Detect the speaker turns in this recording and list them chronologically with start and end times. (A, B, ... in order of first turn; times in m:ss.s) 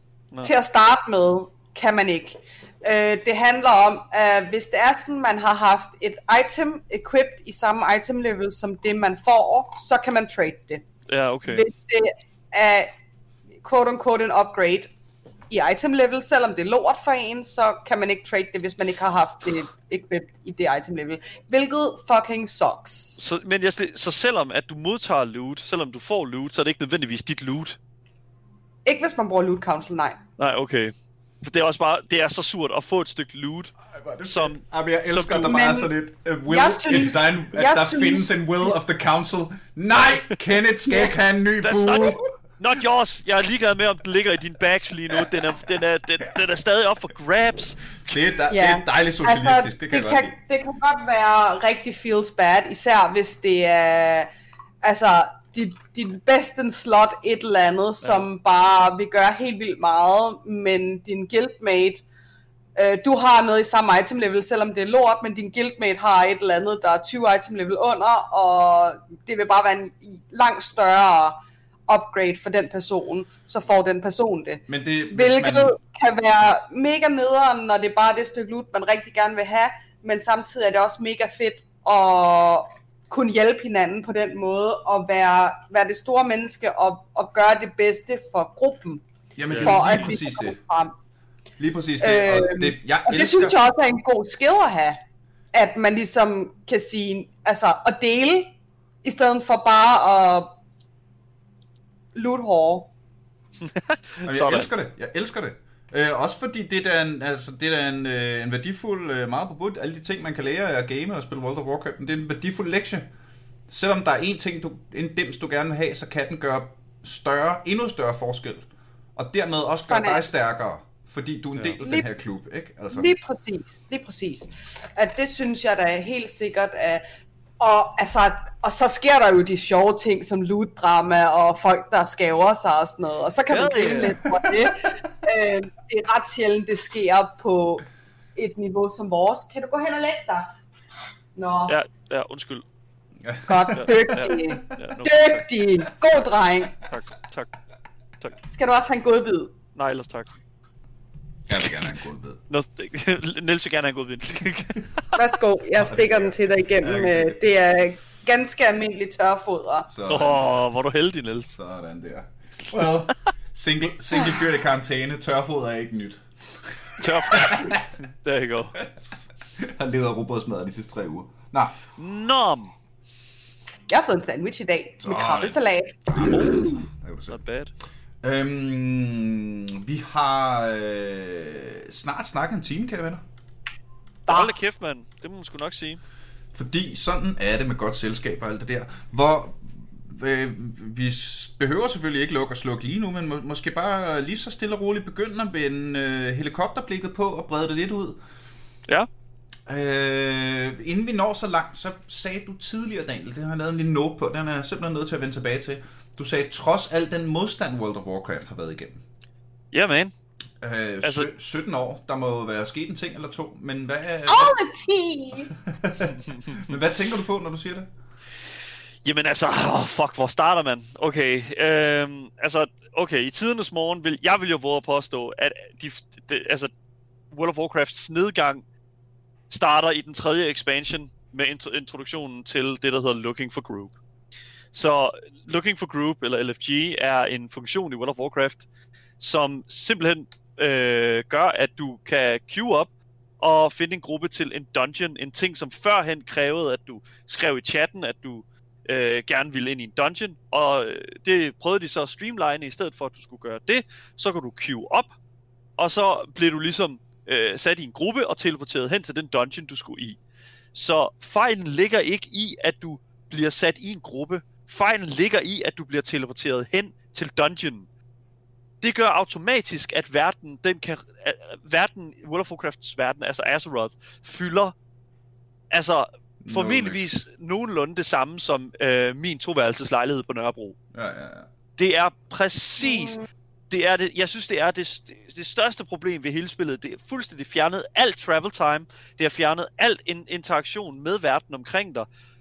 0:00.4-0:10.8 A
0:11.1-0:11.7 B
0:11.5-0:12.9 A
0:13.6-0:14.9 A
0:15.5-0:23.2 A
0:23.2-0:27.8 B
0:28.8-0:30.2 A
0:30.4-0:35.6 B
0:33.9-0:42.2 C
0:35.4-0:35.9 A
0:36.5-0:38.8 A
0:40.9-0:41.1 A
0:41.6-0:48.2 B
0:48.1-0:50.3 C
0:48.5-0:54.3 A
0:54.8-1:02.0 A
1:02.8-1:11.4 A
1:11.9-1:30.9 A
1:14.7-1:15.8 C
1:29.4-1:30.6 C
1:29.5-1:30.1 B
1:31.6-1:33.6 C
1:32.0-1:35.0 A
1:35.5-1:38.5 A
1:39.0-1:40.5 A
1:42.2-1:42.9 A
1:43.6-1:44.7 B
1:44.3-1:53.1 C
1:53.7-2:03.1 C
1:59.9-2:00.3 A
2:01.6-2:01.8 B
2:02.9-2:07.0 A
2:07.6-2:20.5 A
2:13.5-2:14.2 B
2:21.4-2:21.8 A
2:21.7-2:22.6 B
2:23.2-2:24.0 C
2:23.5-2:26.8 A
2:23.7-2:25.5 B
2:26.9-2:27.5 B
2:28.5-2:29.5 A
2:29.8-2:30.3 B
2:31.5-2:32.4 C
2:32.5-2:35.2 B
2:35.2-2:39.9 A
2:35.8-2:37.4 C
2:39.9-2:40.5 C
2:40.1-2:41.6 B
2:41.5-2:47.8 C
2:47.0-2:48.8 B
2:49.6-2:51.8 C
2:52.0-2:52.7 B
2:53.9-2:56.7 A
2:55.0-2:57.4 C
2:57.3-2:57.7 B
2:58.2-3:03.2 C
3:04.3-3:04.6 A
3:04.3-3:06.0 B
3:06.5-3:18.2 C
3:19.7-3:29.0 C
3:29.7-3:30.1 B
3:30.6-3:34.5 C
3:31.0-3:31.3 B
3:34.3-3:35.5 A
3:35.5-3:37.9 C
3:36.3-3:36.7 B
3:39.0-3:46.7 B
3:47.3-3:48.6 B
3:49.5-3:54.0 B
3:54.7-3:58.7 B
3:59.2-4:15.2 B
4:15.8-4:20.2 B
4:20.7-4:27.9 B
4:28.8-4:34.7 B
4:35.7-4:40.8 B
4:36.4-4:37.2 C
4:40.9-4:41.5 C
4:41.8-4:52.1 B